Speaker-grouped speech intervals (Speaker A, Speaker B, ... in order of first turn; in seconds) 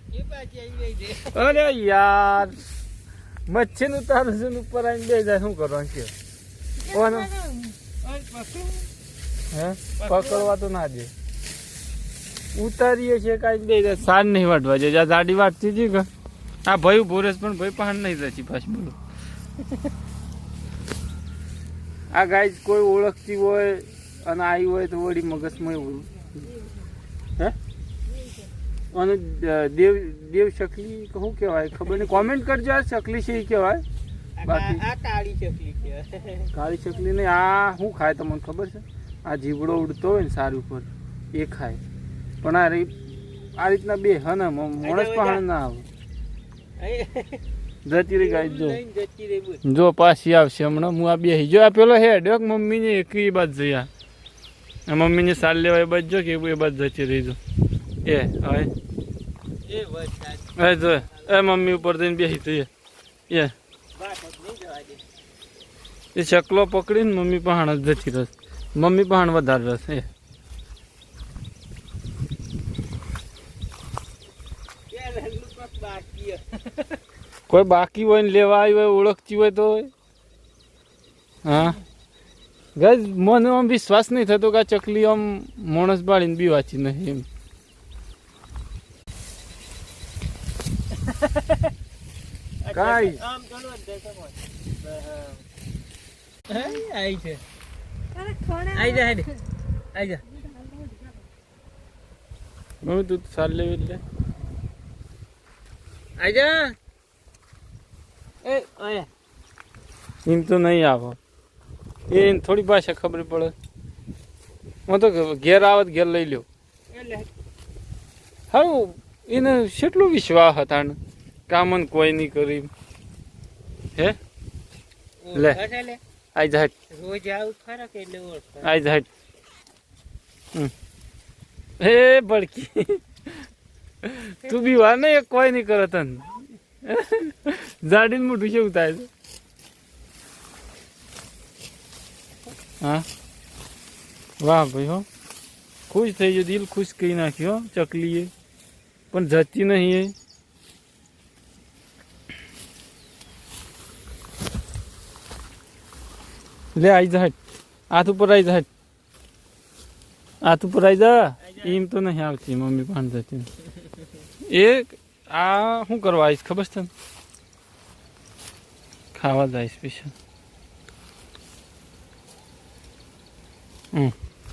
Speaker A: 0.1-1.5, 7.2-8.9, 10.0-10.5, 31.8-32.2, 34.4-36.5, 44.8-45.4, 46.8-47.4, 48.1-49.6, 59.6-61.8, 63.9-65.0, 74.9-77.0, 90.9-91.7, 92.6-95.4, 96.5-97.4, 98.7-99.3, 99.9-100.2, 106.2-106.8, 108.4-109.1, 116.9-117.3, 125.2-126.0, 126.9-128.7, 134.5-134.7
Speaker B: 1.3-2.6, 3.5-6.1, 6.9-7.3, 9.5-11.1, 12.5-16.1, 16.6-19.0, 22.1-26.1, 28.9-33.8, 34.5-34.8, 36.5-41.8, 42.4-42.9, 43.6-45.9, 47.9-48.8, 49.6-53.9, 54.9-57.4, 58.0-58.7, 60.5-62.7, 66.1-70.1, 77.5-79.9, 81.4-81.8, 82.8-87.2, 92.7-93.2, 102.8-104.0, 110.2-111.2, 112.1-113.5, 114.9-116.5, 118.5-121.0, 121.5-122.7, 125.3-125.6, 126.3-126.7, 128.6-129.1, 131.8-133.3, 134.0-139.1, 144.4-145.1, 145.9-148.3, 149.1-150.1, 156.7-157.3, 157.9-158.7, 160.4-163.5, 164.5-166.9, 169.1-170.1
Speaker C: 28.1-28.5, 96.5-96.8, 98.1-99.3, 100.3-101.2